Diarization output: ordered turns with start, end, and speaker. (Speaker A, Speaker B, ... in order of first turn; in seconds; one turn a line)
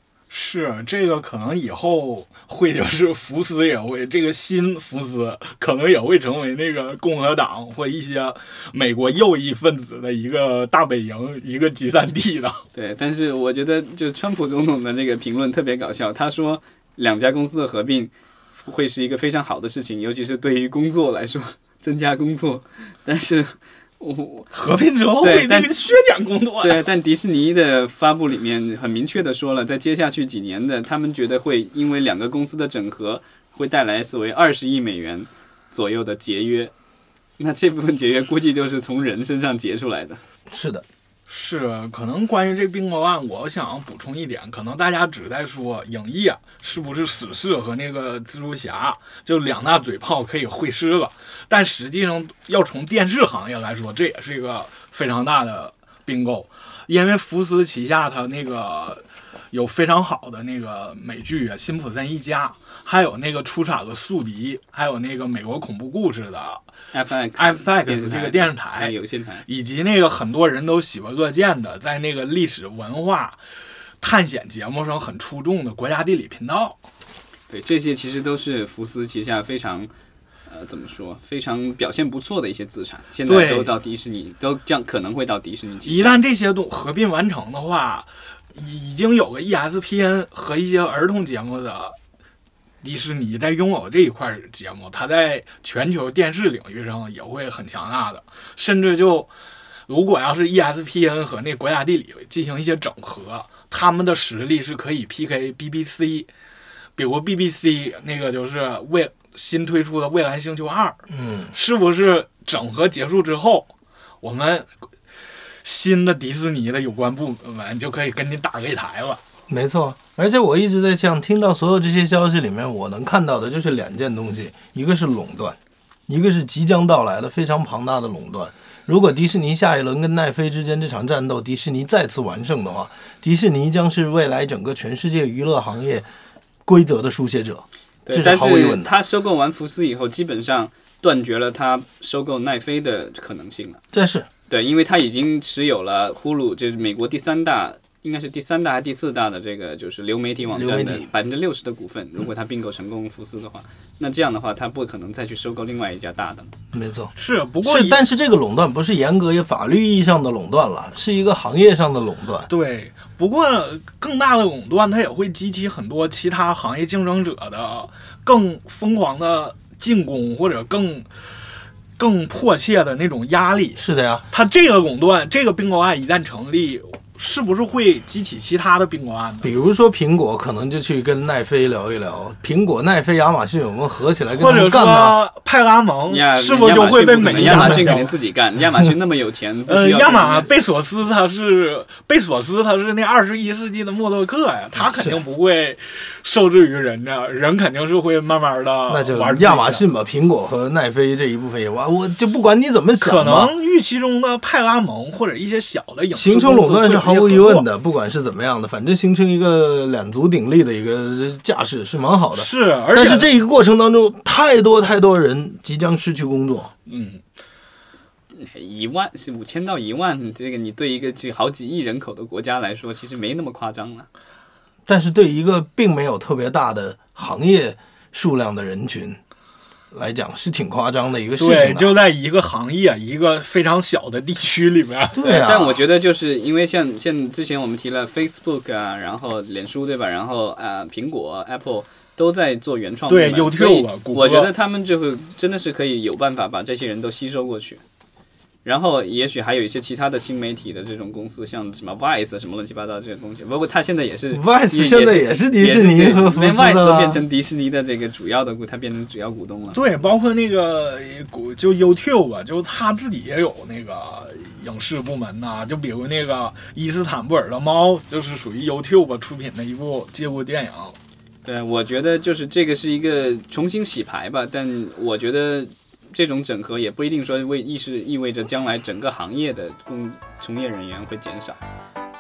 Speaker A: 0.3-12.6
Speaker B: 12.7-24.5
Speaker A: 24.5-26.8
Speaker B: 25.2-25.8
Speaker B: 26.6-36.7
Speaker B: 37.4-40.2
Speaker C: 40.5-40.8
Speaker A: 41.3-66.6
Speaker B: 66.9-69.4
Speaker A: 67.1-68.9
Speaker A: 69.5-73.4
Speaker A: 74.0-76.8
Speaker B: 77.5-79.9
Speaker B: 80.5-86.2
Speaker A: 83.2-83.7
Speaker A: 85.8-92.0
Speaker A: 92.8-99.3
Speaker A: 99.9-106.3
Speaker A: 107.0-111.0
Speaker C: 111.1-111.5
Speaker A: 111.5-114.7
Speaker A: 115.6-119.2
Speaker C: 119.5-125.6
Speaker C: 126.1-136.1
Speaker C: 136.7-138.9
Speaker B: 138.0-143.8
Speaker C: 143.9-144.3
Speaker B: 144.5-156.5
Speaker C: 150.5-151.0
Speaker C: 156.7-157.1
Speaker A: 157.2-158.0
Speaker C: 157.6-162.5
Speaker A: 162.5-171.1
Speaker A: 172.0-179.5
Speaker C: 173.8-174.2
Speaker C: 179.4-185.2
Speaker A: 184.3-188.2
Speaker B: 186.1-190.5
Speaker C: 187.2-187.9
Speaker A: 189.7-199.8
Speaker C: 194.7-195.2
Speaker C: 198.9-203.5
Speaker A: 203.0-207.7
Speaker C: 206.1-216.7
Speaker A: 212.3-213.3
Speaker A: 216.8-217.2
Speaker B: 218.3-224.1
Speaker C: 224.9-229.2
Speaker C: 229.9-232.0
Speaker A: 231.4-235.4
Speaker C: 235.1-235.8
Speaker B: 235.2-247.8
Speaker A: 243.1-244.5
Speaker B: 248.6-259.8
Speaker C: 254.3-257.2
Speaker A: 259.7-270.9
Speaker B: 271.4-281.6